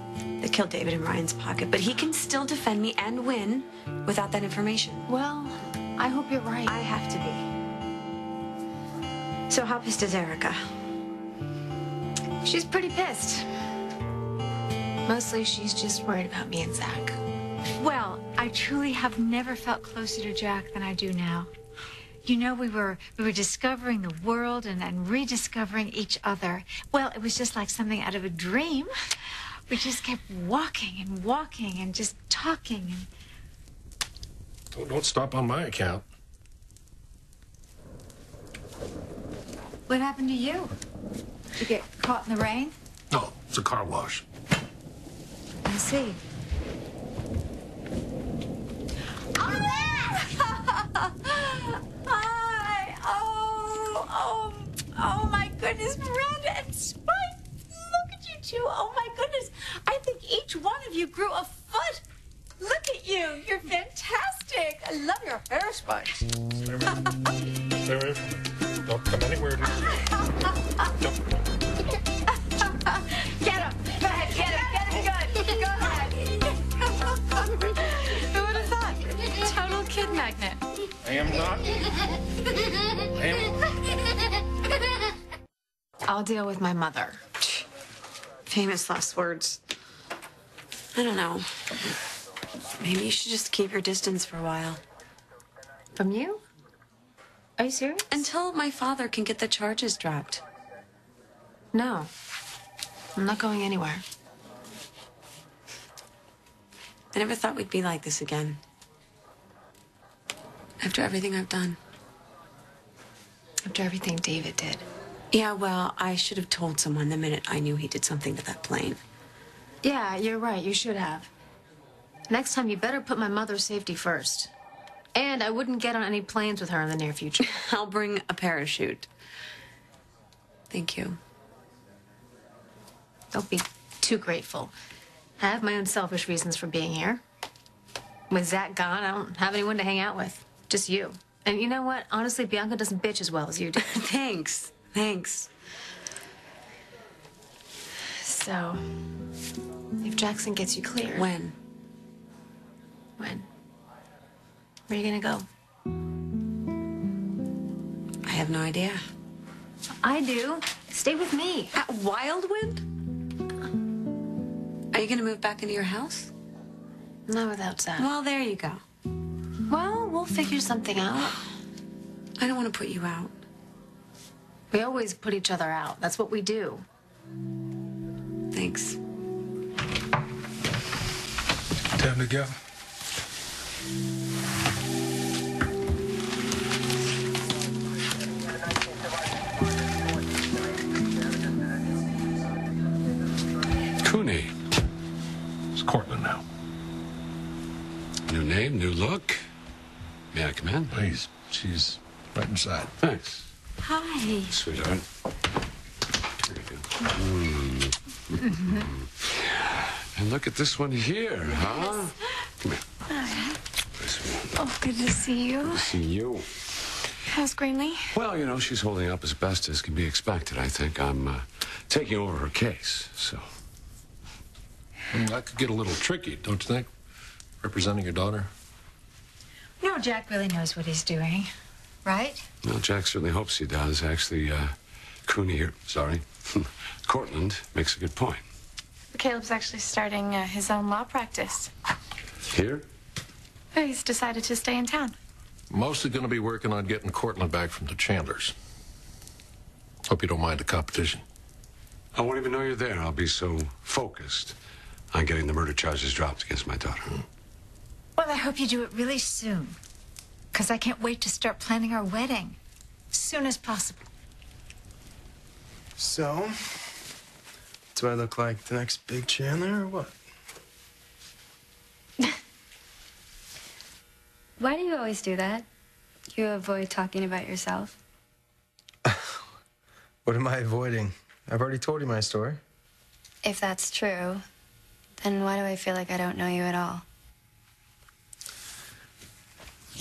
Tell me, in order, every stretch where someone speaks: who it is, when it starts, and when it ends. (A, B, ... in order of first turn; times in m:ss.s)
0:00.4-0:05.0 A
0:05.1-0:06.7 B
0:06.6-0:07.4 A
0:09.5-0:10.7 A
0:12.4-0:13.5 B
0:15.1-0:17.2 B
0:17.8-0:21.5 C
0:22.2-0:28.9 C
0:29.7-0:33.1 C
0:34.7-0:36.0 D
0:39.9-0:40.8 C
0:41.6-0:42.7 C
0:43.1-0:44.2 D
0:45.6-0:46.2 C
0:49.3-1:02.0 C
1:02.6-1:06.3 C
1:09.6-1:09.9 C
1:12.6-1:16.5 C
1:18.1-1:20.6 B
1:18.4-1:18.8 C
1:19.4-1:20.5 C
1:26.0-1:27.2 B
1:28.5-1:29.6 A
1:30.9-1:31.9 A
1:32.8-1:34.8 A
1:36.0-1:36.4 B
1:37.6-1:38.3 B
1:38.1-1:40.4 A
1:41.7-1:42.1 B
1:43.2-1:44.0 B
1:47.1-1:48.6 A
1:50.8-1:51.8 A
1:53.6-1:54.8 B
1:55.3-1:59.0 A
1:59.8-2:01.3 B
2:02.3-2:04.5 B
2:05.1-2:07.5 B
2:07.4-2:09.1 A
2:10.7-2:11.2 A
2:13.3-2:14.7 B
2:15.4-2:17.2 B
2:18.3-2:23.8 B
2:23.8-2:25.5 A
2:28.2-2:28.9 B
2:30.0-2:31.3 B
2:31.1-2:31.5 A
2:33.2-2:33.5 B
2:34.9-2:35.4 B
2:38.2-2:39.0 A
2:40.0-2:41.8 B
2:41.7-2:42.8 A
2:44.9-2:46.3 A
2:47.3-2:48.1 B
2:48.0-2:48.8 A
2:49.7-2:51.3 B
2:52.4-2:53.3 A
2:54.7-2:56.8 B
2:58.5-2:59.0 A
3:14.0-3:14.5 E
3:15.7-3:16.4 D
3:18.3-3:19.4 E
3:20.3-3:20.9 E
3:20.9-3:22.9 D
3:23.0-3:23.5 E
3:23.8-3:24.6 C
3:24.5-3:25.0 E
3:26.4-3:32.8 E
3:28.4-3:28.9 C
3:34.0-3:34.7 E
3:34.8-3:35.3 B
3:35.3-3:35.8 F
3:35.6-3:36.5 E
3:37.3-3:38.0 F
3:38.1-3:43.4 E
3:45.1-3:46.9 D
3:47.6-3:48.5 D
3:49.8-3:51.5 C
3:52.0-3:52.4 C
3:52.6-3:54.7 E
3:55.2-3:58.4 E
3:59.1-4:01.7 F
4:02.5-4:02.8 E
4:03.7-4:05.1 F
4:05.7-4:08.5 D
4:10.0-4:11.2 D
4:12.1-4:14.6 E
4:15.1-4:17.2 E
4:18.2-4:19.8 C
4:20.5-4:22.6 C
4:23.1-4:24.0 C
4:26.0-4:26.5 G
4:27.9-4:30.2 G
4:34.6-4:35.6 H
4:36.3-4:38.0 H
4:39.0-4:39.3 G
4:40.2-4:42.6 G
4:43.4-4:44.4 H
4:45.2-4:47.0 H